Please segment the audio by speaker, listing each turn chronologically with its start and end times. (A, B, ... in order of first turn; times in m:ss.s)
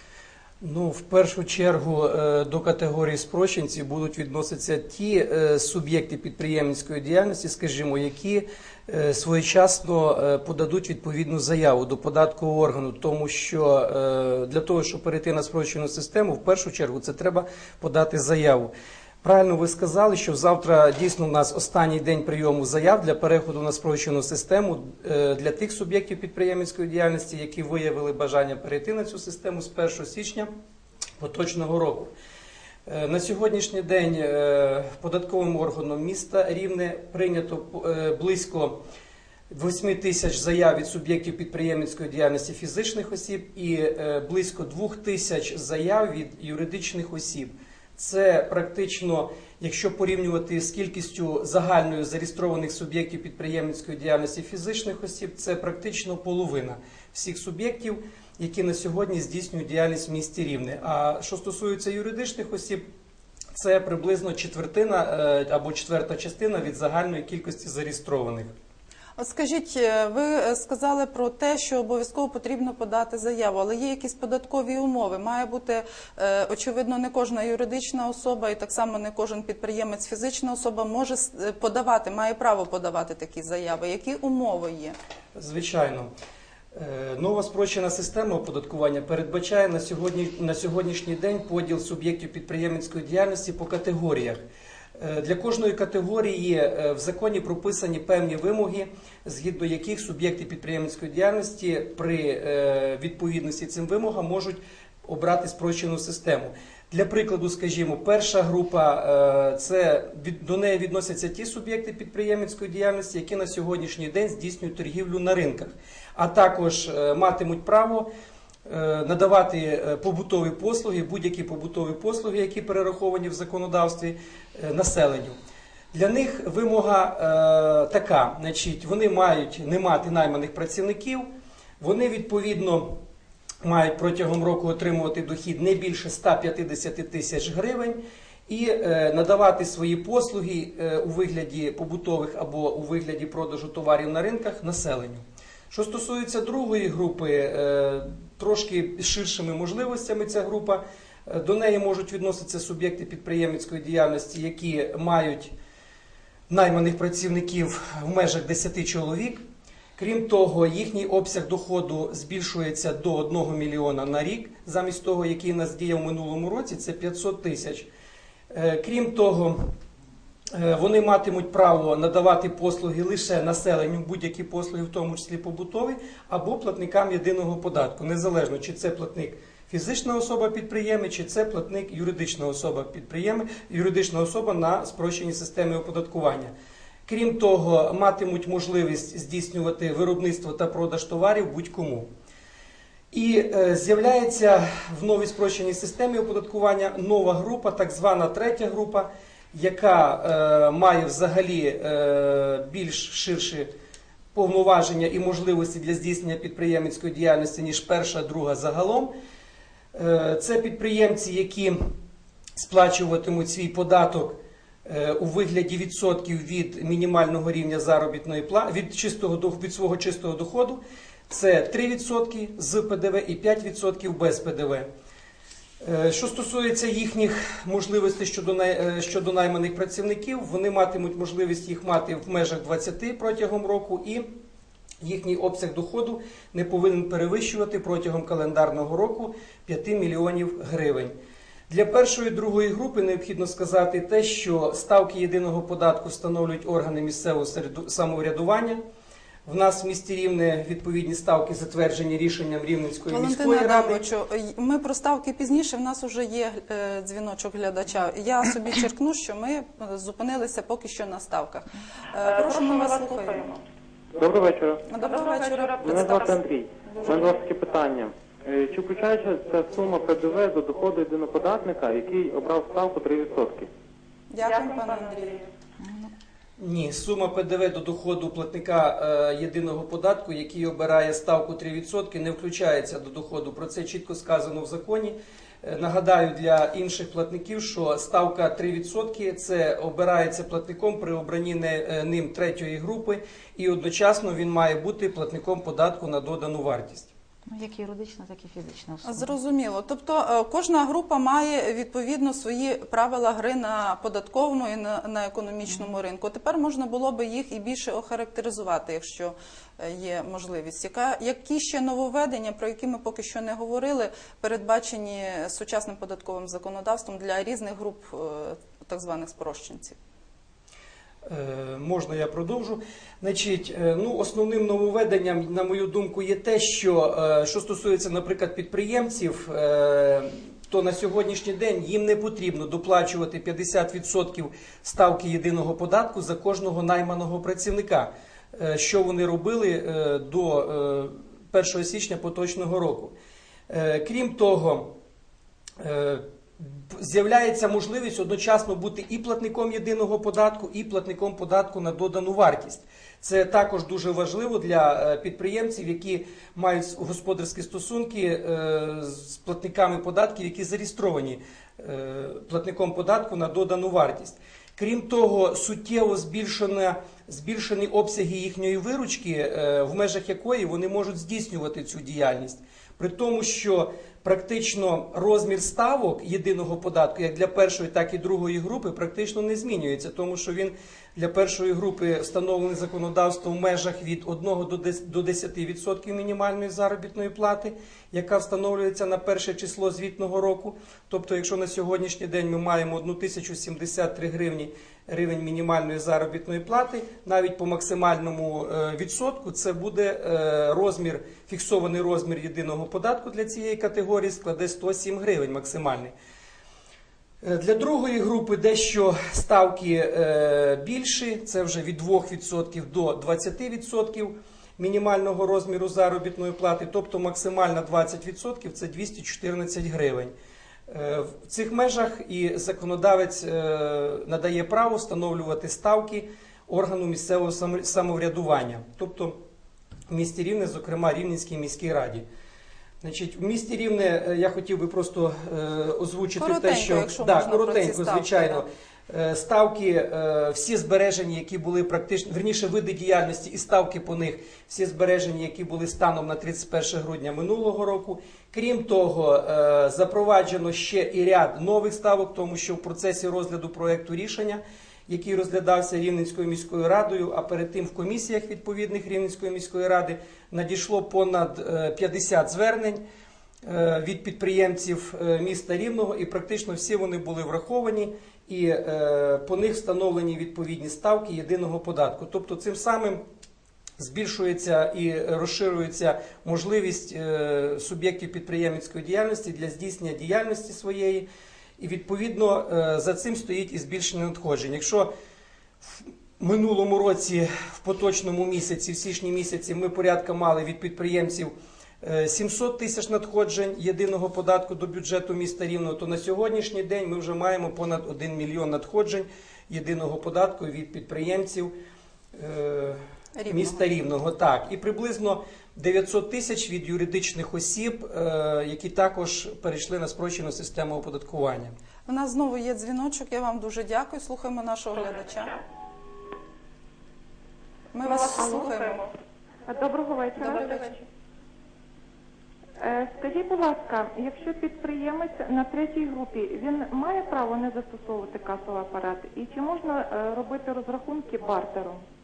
0:00.6-0:18.7 A
0:19.2-0:30.5 A
0:31.2-0:32.1 A
0:32.9-0:38.8 A
0:39.5-1:02.8 A
1:03.5-1:08.5 A
1:09.2-1:25.0 B
1:25.3-1:26.1 A
1:26.7-1:34.4 A
1:35.0-1:58.1 A
1:58.6-2:05.4 A
2:05.9-2:13.0 A
2:13.6-2:35.5 A
2:36.5-2:39.4 A
2:40.0-2:47.9 A
2:48.5-2:49.7 A
2:50.5-3:06.5 A
3:07.1-3:12.1 A
3:13.1-3:23.7 A
3:24.3-3:29.1 A
3:29.9-3:31.8 A
3:32.6-3:44.9 A
3:45.8-3:54.3 A
3:55.0-4:01.1 A
4:01.7-4:08.8 A
4:09.4-4:14.0 A
4:13.1-4:23.6 B
4:24.2-4:24.9 C
4:24.9-4:26.4 B
4:25.8-4:33.7 C
4:34.3-4:35.4 B
4:35.8-4:36.1 D
4:36.6-4:57.1 A
4:57.5-4:59.4 D
4:59.0-5:20.0 B
5:21.2-5:43.1 A
5:43.7-5:44.9 A
5:45.8-6:46.1 A
6:47.4-7:00.3 A
7:00.9-7:09.4 A
7:10.1-7:12.2 A
7:13.0-7:43.0 A
7:16.4-7:18.6 B
7:43.6-7:53.2 A
7:54.0-8:05.1 A
8:05.8-8:21.7 A
8:22.3-8:31.8 A
8:23.4-8:23.8 B
8:32.1-8:35.5 B
8:37.9-8:39.0 B
8:38.1-8:38.8 E
8:39.7-8:40.9 E
8:40.4-8:41.0 B
8:42.8-8:52.0 E